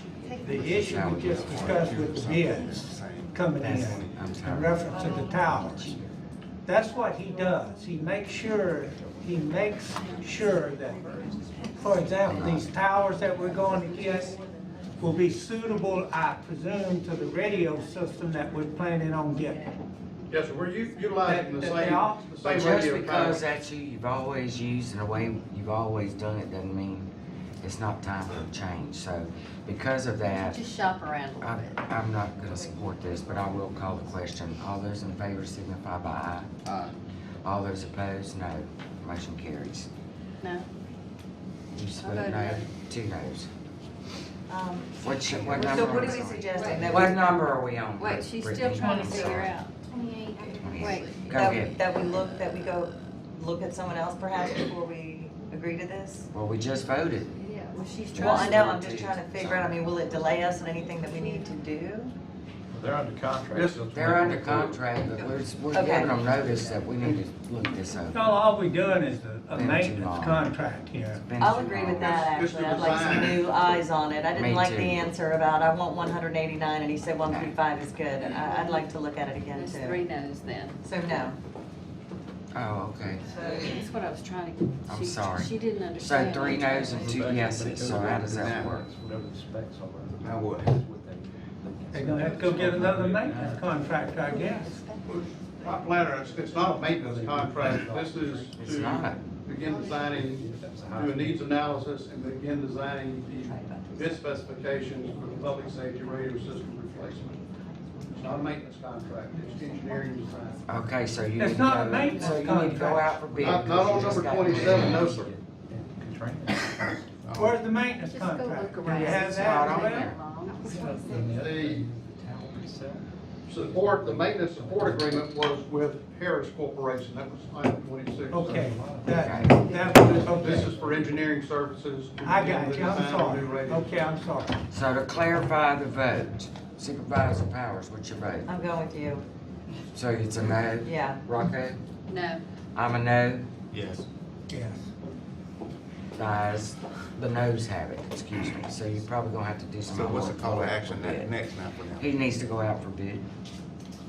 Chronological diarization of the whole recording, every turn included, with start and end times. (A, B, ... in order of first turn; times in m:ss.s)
0:00.2-0:00.6 A
0:00.3-0:06.0 B
0:00.5-0:04.4 C
0:00.8-0:02.0 D
0:03.5-0:06.0 D
0:04.9-0:05.2 A
0:06.6-0:14.4 B
0:10.3-0:12.3 E
0:12.2-0:12.7 D
0:13.7-0:14.5 E
0:15.0-0:19.7 B
0:20.3-0:23.4 F
0:21.2-0:22.3 B
0:22.4-0:27.1 D
0:27.6-0:30.7 D
0:30.3-0:31.8 A
0:31.4-0:36.5 D
0:36.6-0:37.0 C
0:37.4-0:39.9 D
0:40.4-0:40.7 A
0:41.7-0:43.5 D
0:42.0-0:42.7 A
0:44.5-0:47.3 G
0:45.0-0:49.6 D
0:45.3-0:46.0 C
0:46.6-0:46.9 A
0:48.0-0:49.8 A
0:49.9-0:51.4 E
0:50.6-0:51.9 D
0:50.6-0:51.2 A
0:51.2-0:56.3 G
0:56.3-0:57.4 D
0:57.4-0:58.6 A
0:57.6-0:58.1 E
0:58.1-0:59.8 D
0:58.1-1:02.1 G
1:01.0-1:01.5 A
1:02.7-1:05.5 H
1:03.5-1:04.6 F
1:03.9-1:08.2 D
1:05.7-1:06.1 G
1:06.3-1:06.9 H
1:08.1-1:11.2 B
1:09.5-1:10.5 D
1:11.1-1:12.2 D
1:11.4-1:20.0 G
1:12.0-1:13.4 F
1:14.3-1:15.1 D
1:17.2-1:17.5 D
1:18.3-1:18.8 A
1:19.5-1:20.8 A
1:20.8-1:21.4 G
1:22.5-1:23.3 D
1:23.3-1:27.3 A
1:24.8-1:28.9 D
1:26.9-1:34.1 H
1:28.3-1:28.8 C
1:30.2-1:30.7 C
1:31.9-1:34.8 B
1:34.2-1:35.0 A
1:35.0-1:47.4 F
1:36.6-1:36.9 B
1:37.0-1:38.6 H
1:38.6-1:39.2 D
1:40.0-1:41.8 H
1:43.3-1:44.2 G
1:45.4-1:47.4 E
1:48.1-1:50.6 F
1:49.3-1:50.8 E
1:50.6-1:55.1 D
1:51.4-1:53.8 B
1:52.0-1:52.4 E
1:53.4-1:55.3 F
1:53.7-1:57.5 H
1:57.3-1:57.6 C
1:57.3-2:01.1 B
1:57.9-2:01.4 A
1:59.3-2:00.2 D
2:00.6-2:05.3 H
2:01.3-2:01.9 F
2:03.4-2:08.8 F
2:08.3-2:10.7 B
2:08.5-2:11.1 H
2:09.1-2:09.7 D
2:10.1-2:13.9 F
2:12.2-2:14.6 B
2:14.7-2:18.5 D
2:18.5-2:19.2 G
2:19.9-2:21.8 D
2:20.8-2:21.2 G
2:22.1-2:22.4 A
2:22.7-2:23.4 D
2:23.7-2:24.0 C
2:24.5-2:24.9 B
2:26.2-2:31.3 D
2:29.9-2:32.1 C
2:32.0-2:33.2 D